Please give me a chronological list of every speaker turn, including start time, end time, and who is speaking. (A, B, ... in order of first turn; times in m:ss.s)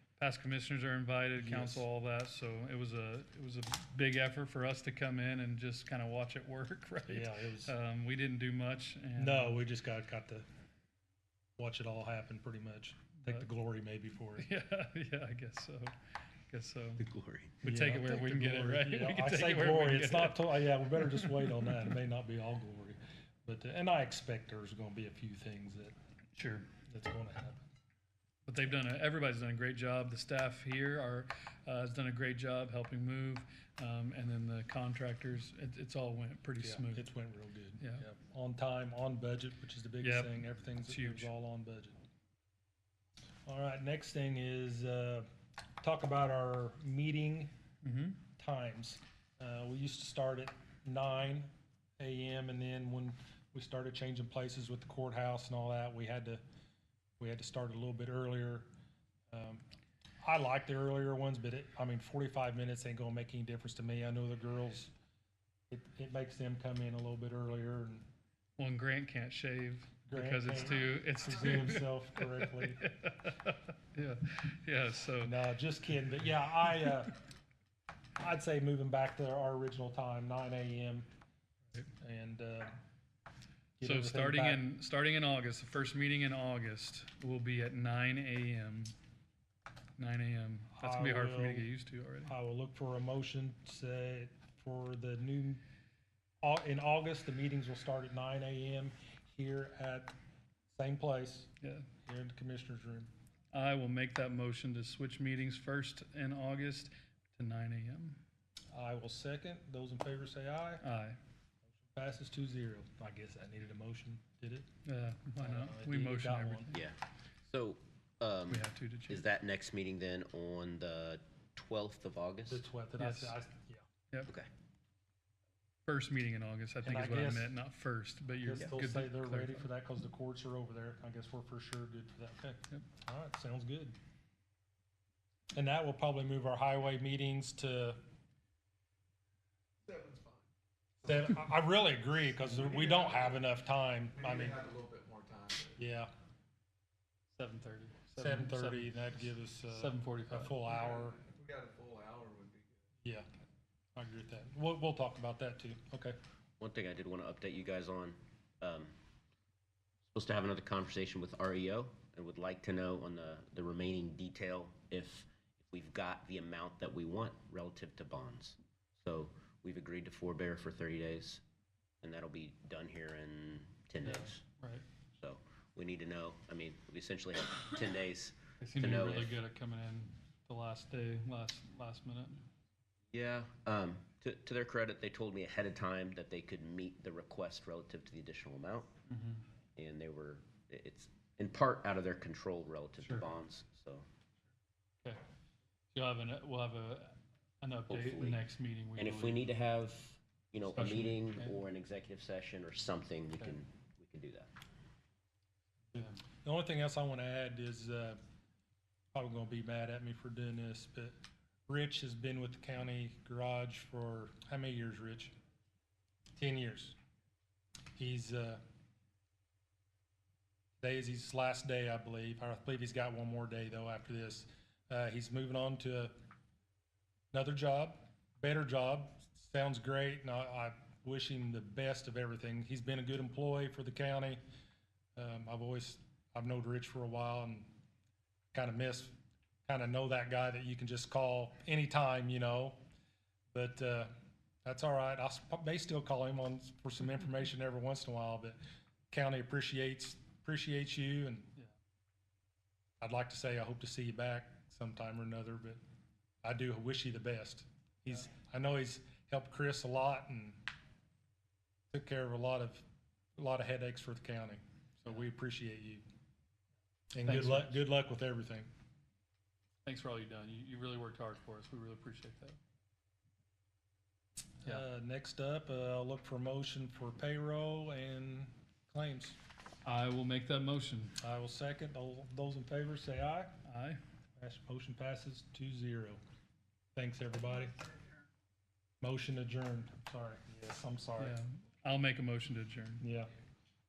0:00.2-0:09.6 A
0:01.4-0:01.8 B
0:07.1-0:07.7 B
0:09.2-0:10.4 B
0:11.6-0:14.5 B
0:13.2-0:13.5 A
0:14.4-0:15.9 A
0:16.5-0:17.0 A
0:17.0-0:17.6 C
0:17.6-0:21.9 A
0:17.6-0:25.9 B
0:26.3-0:26.7 A
0:26.9-0:27.6 B
0:28.4-0:37.1 A
0:36.5-0:42.0 B
0:37.8-0:38.0 A
0:40.0-0:41.3 A
0:43.4-0:45.3 B
0:45.8-0:47.5 B
0:47.8-0:48.2 A
0:48.4-0:56.4 B
0:57.2-0:58.7 B
0:59.3-0:59.6 B
1:00.2-1:04.9 B
1:05.7-1:08.0 B
1:08.6-1:15.4 A
1:10.1-1:12.9 B
1:15.2-1:17.1 B
1:16.6-1:17.0 A
1:18.2-1:21.1 B
1:22.0-1:22.7 B
1:23.8-1:24.6 B
1:23.8-1:28.9 A
1:30.0-1:32.4 A
1:30.7-1:31.7 B
1:32.2-1:35.6 B
1:36.4-1:40.1 B
1:40.7-1:41.5 B
1:41.6-1:41.9 A
1:42.0-1:43.1 B
1:43.5-1:48.2 A
1:48.7-1:50.8 B
1:50.8-1:51.2 A
1:51.9-1:54.7 B
1:54.8-1:56.8 A
1:55.4-1:56.7 B
1:56.7-2:02.6 C
1:58.5-1:59.3 A
2:02.5-2:03.8 B
2:03.0-2:03.4 A
2:05.8-2:09.7 A
2:06.8-2:07.6 B
2:08.4-2:13.9 B
2:15.5-2:18.0 B
2:19.9-2:20.4 D
2:21.0-2:24.6 B
2:24.2-2:25.7 D
2:25.8-2:26.1 B
2:27.3-2:30.6 A
2:28.2-2:31.2 B
2:30.7-2:32.7 D
2:34.0-2:36.2 B
2:36.6-2:38.9 C
2:40.1-2:51.4 C
2:52.0-2:54.4 C
2:54.0-2:54.8 A
2:55.2-2:59.4 C
2:58.6-3:02.4 A
3:03.1-3:08.9 C
3:09.1-3:09.4 A
3:09.8-3:14.0 C
3:13.0-3:13.3 A
3:15.9-3:19.5 A
3:17.9-3:18.4 C
3:19.0-3:24.5 C
3:20.7-3:21.6 A
3:25.9-3:28.2 B
3:29.1-3:31.1 B
3:31.7-3:35.3 B
3:36.4-3:37.0 B
3:38.0-3:38.6 B
3:40.8-3:46.1 B
3:47.3-3:54.4 B
3:55.2-3:57.7 B
3:58.5-3:59.1 B
3:59.6-4:02.8 B
4:03.5-4:04.1 B
4:04.6-4:08.6 B
4:09.1-4:11.5 B
4:13.0-4:15.8 B
4:16.4-4:20.6 B
4:21.9-4:22.8 B
4:23.4-4:26.0 B
4:27.1-4:28.7 B
4:27.2-4:27.8 A
4:29.8-4:32.6 A
4:34.6-4:39.4 B
4:39.8-4:41.2 A
4:41.2-4:43.5 B
4:43.6-4:44.0 A
4:44.4-4:46.2 B
4:47.0-4:47.8 B
4:49.0-4:51.4 B
4:51.2-4:53.0 A
4:53.0-4:53.3 B